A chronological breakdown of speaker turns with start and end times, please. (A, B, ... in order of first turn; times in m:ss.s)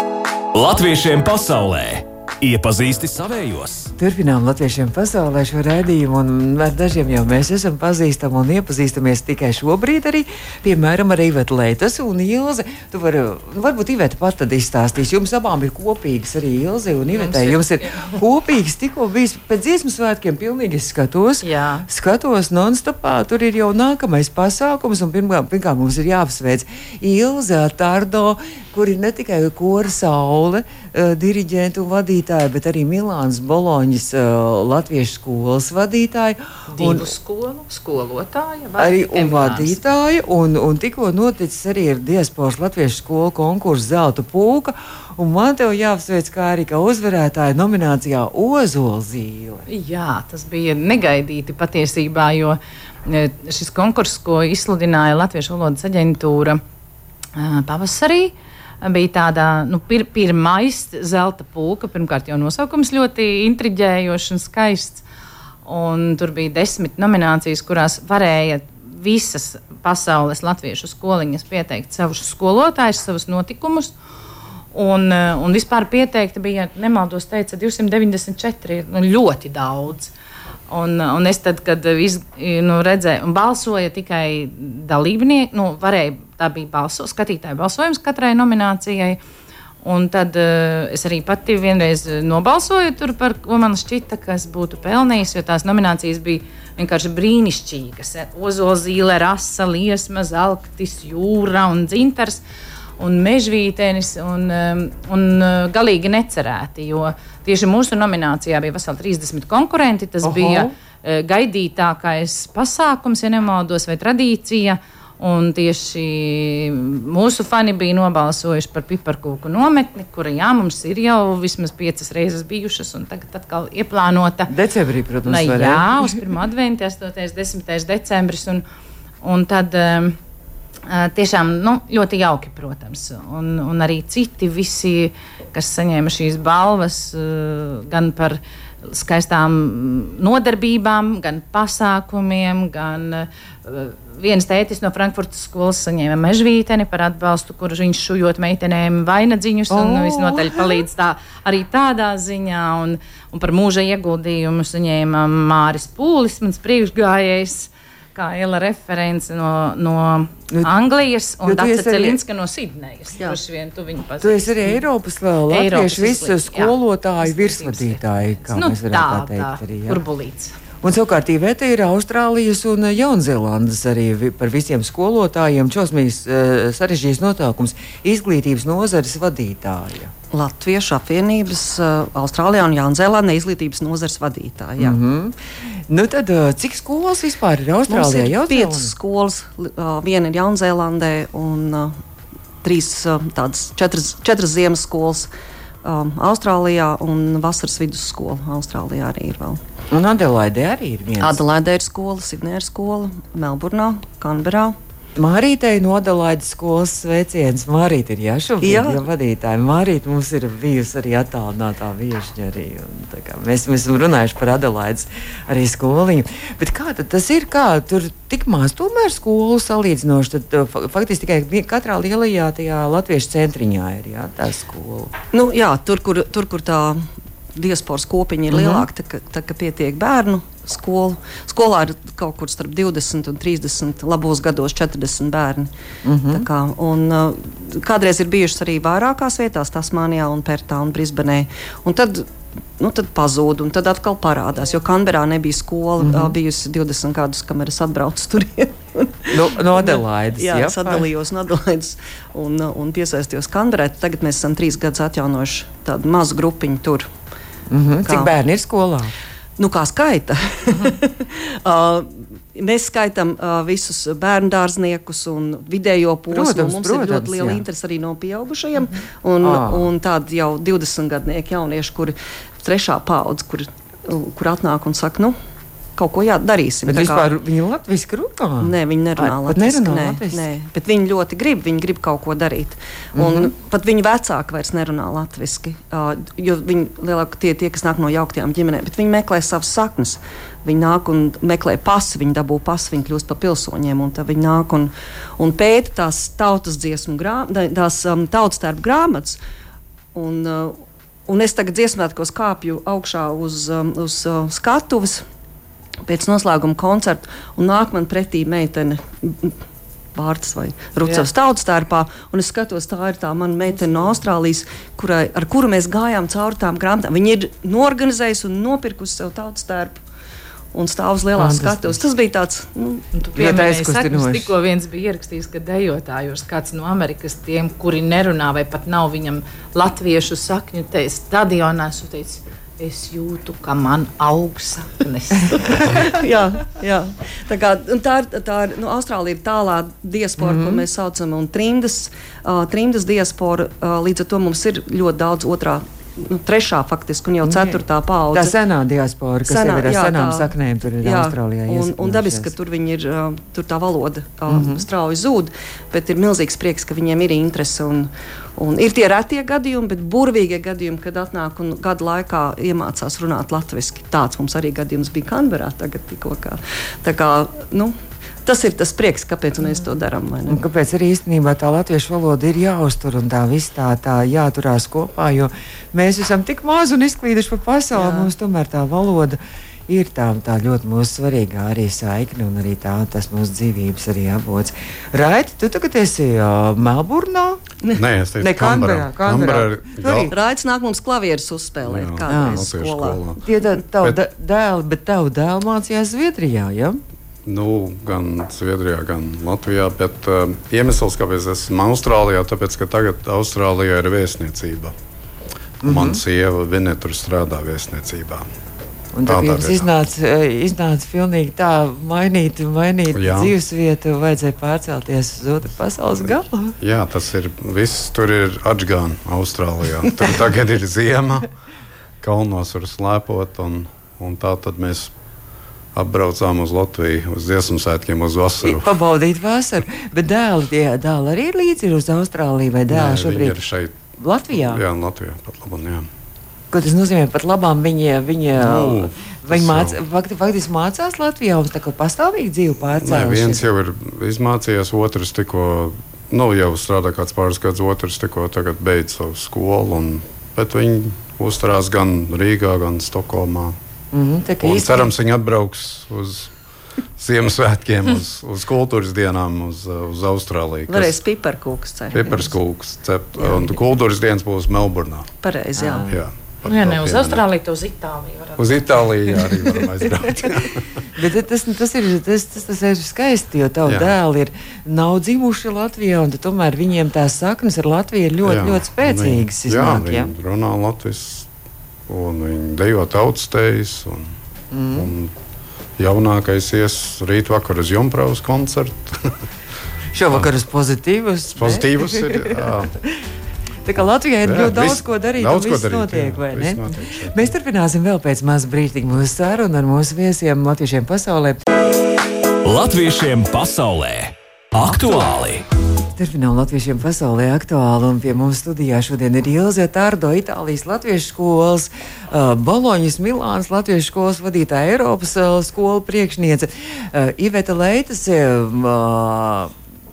0:00.5-0:03.9 A
0:04.0-0:37.1 B
0:17.1-0:18.2 C
0:21.4-0:21.9 C
0:36.7-0:39.9 C
0:38.8-0:49.6 B
0:49.7-0:56.6 C
0:57.3-1:05.0 C
1:05.6-1:13.9 C
1:14.7-1:20.1 C
1:20.7-1:29.2 C
1:29.8-1:42.4 C
1:43.0-2:04.5 C
1:50.2-1:50.7 B
2:04.5-2:06.2 B
2:05.2-2:08.6 C
2:09.2-2:10.2 C
2:10.9-2:44.8 C
2:29.7-2:30.8 B
2:41.4-2:42.2 B
2:44.2-2:50.0 B
2:45.5-2:50.5 C
2:50.8-3:00.1 B
3:00.3-3:05.0 D
3:04.8-3:08.9 B
3:07.9-3:12.0 D
3:12.6-3:15.3 D
3:15.8-3:19.6 D
3:19.9-3:21.4 B
3:21.2-3:24.8 D
3:25.2-3:45.1 B
3:28.6-3:29.0 D
3:45.3-3:47.0 D
3:47.5-3:55.7 D
3:48.5-3:48.9 B
3:56.0-3:56.4 B
3:56.3-4:02.3 D
4:02.8-4:17.1 D
4:06.0-4:06.4 B
4:09.3-4:11.1 B
4:17.7-4:19.1 B
4:18.0-4:18.3 D
4:19.6-4:35.3 D
4:26.3-4:27.6 B
4:29.4-4:29.9 B
4:36.0-4:37.2 D
4:36.8-4:40.4 B
4:38.6-4:59.4 D
4:43.1-4:43.5 B
5:00.1-5:05.2 D
5:06.0-5:09.5 D
5:10.1-5:20.0 D
5:20.7-5:23.0 D
5:21.4-5:22.0 B
5:23.1-5:35.8 C
5:23.3-5:24.5 B
5:35.6-5:48.5 D
5:40.4-5:40.8 B
5:47.4-5:47.8 B
5:48.3-5:52.5 B
5:49.5-6:07.9 D
5:54.5-5:54.8 B
6:08.4-6:10.6 D
6:10.5-6:27.6 B
6:18.0-6:18.3 D
6:27.9-6:30.3 E
6:28.4-6:30.3 B
6:30.3-6:33.2 D
6:31.8-6:33.4 E
6:32.3-6:32.6 B
6:33.4-6:37.0 B
6:37.4-6:44.9 E
6:45.8-6:46.2 B
6:45.8-6:48.4 E
6:49.1-6:56.8 B
6:49.3-6:49.9 E
6:53.1-6:53.5 E
6:56.8-7:01.5 E
7:02.2-7:05.1 E
7:05.9-7:08.9 E
7:08.6-7:13.6 B
7:12.9-7:14.0 E
7:14.2-7:14.8 B
7:14.5-7:16.1 E
7:16.7-7:23.7 B
7:18.6-7:20.0 E
7:23.0-7:33.8 E
7:34.1-7:35.1 B
7:34.6-7:36.5 E
7:37.2-7:41.2 E
7:40.9-7:42.5 D
7:42.1-7:45.3 E
7:45.4-7:46.1 D
7:45.7-7:46.2 B
7:46.0-7:47.4 E
7:46.6-7:49.4 C
7:48.6-7:51.0 E
7:50.4-8:00.3 B
7:53.8-7:54.1 E
7:58.4-8:01.5 E
8:02.1-8:04.3 E
8:04.7-8:05.1 B
8:04.9-8:05.3 E
8:06.0-8:09.3 E
8:10.1-8:13.2 B
8:11.6-8:12.9 E
8:13.8-8:21.6 B
8:14.4-8:17.5 E
8:22.6-8:25.6 A
8:26.1-8:39.7 B